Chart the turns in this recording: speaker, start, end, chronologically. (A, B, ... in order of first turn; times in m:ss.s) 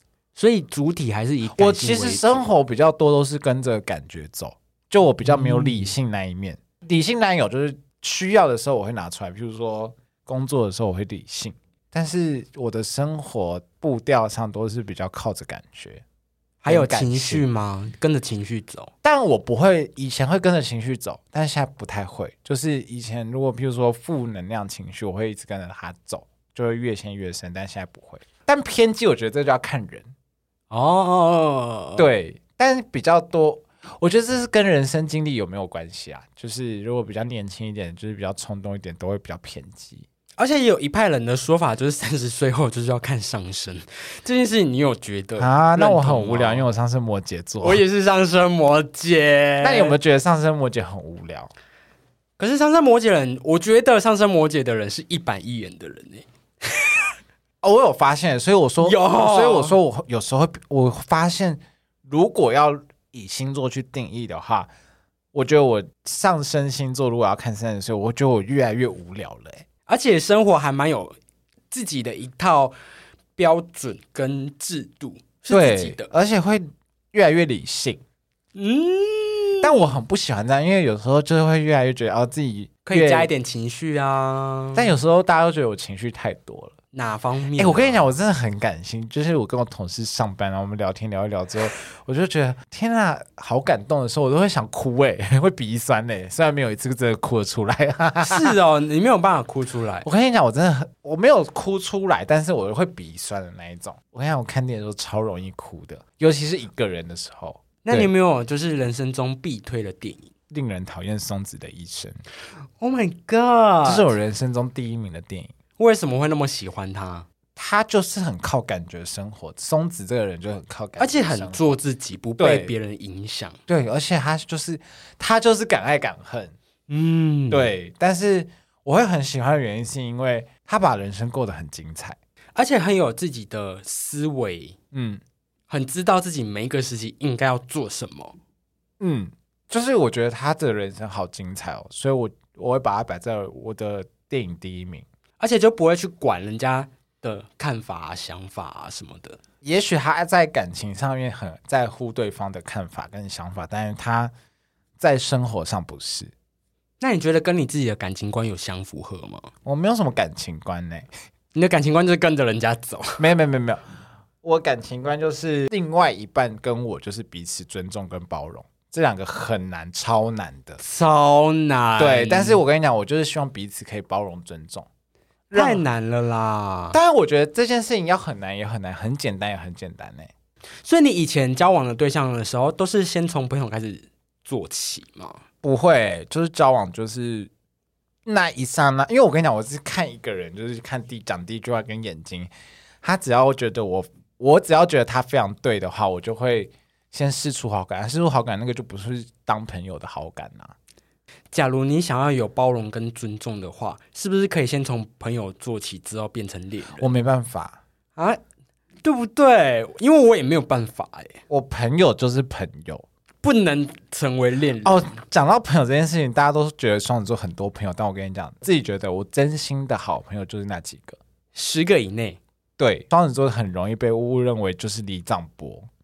0:00.4-0:02.5 A
0:01.5-0:16.0 B
0:05.2-0:05.9 A
0:16.6-0:18.9 A
0:16.6-0:17.4 B
0:19.0-0:30.1 B
0:30.7-0:32.1 A
0:32.0-0:40.0 B
0:40.4-0:46.6 A
0:45.4-0:47.8 B
0:47.6-0:50.0 A
0:49.6-0:51.5 B
0:52.4-0:57.0 A
0:57.6-1:04.7 B
0:58.8-0:59.8 A
1:05.3-1:09.6 B
1:09.9-1:11.2 A
1:11.7-1:12.7 A
1:13.4-1:16.1 A
1:15.5-1:18.0 B
1:18.5-1:19.9 A
1:19.6-1:23.3 B
1:22.8-1:24.9 A
1:24.7-1:26.7 B
1:26.9-1:28.1 A
1:27.6-1:38.5 B
1:38.2-1:40.1 A
1:40.0-1:48.1 B
1:47.8-1:50.3 A
1:50.5-1:52.2 B
1:52.8-1:54.1 A
1:53.8-1:55.5 B
1:55.8-1:57.2 A
1:57.6-2:01.8 B
2:01.0-2:03.6 A
2:02.4-2:02.7 B
2:03.7-2:06.5 B
2:06.9-2:07.7 A
2:07.5-2:12.2 B
2:12.6-2:14.8 A
2:14.9-2:15.2 B
2:15.7-2:18.4 A
2:19.0-2:25.0 B
2:25.4-2:29.4 A
2:29.6-2:34.3 B
2:35.0-2:36.3 B
2:37.0-2:39.5 A
2:39.6-2:41.1 B
2:41.5-2:43.2 A
2:43.2-2:43.8 B
2:44.4-2:50.8 B
2:50.8-2:52.6 A
2:52.0-2:54.9 B
2:55.5-2:55.8 B
2:55.5-2:57.0 A
2:56.9-3:00.3 B
3:00.8-3:05.4 A
3:05.6-3:07.5 B
3:08.2-3:12.5 B
3:13.0-3:20.7 B
3:21.5-3:27.1 A
3:27.0-3:27.8 B
3:29.0-3:31.4 A
3:31.5-3:33.0 B
3:33.4-3:35.0 A
3:34.8-3:41.2 B
3:41.5-3:42.4 A
3:42.8-3:45.9 B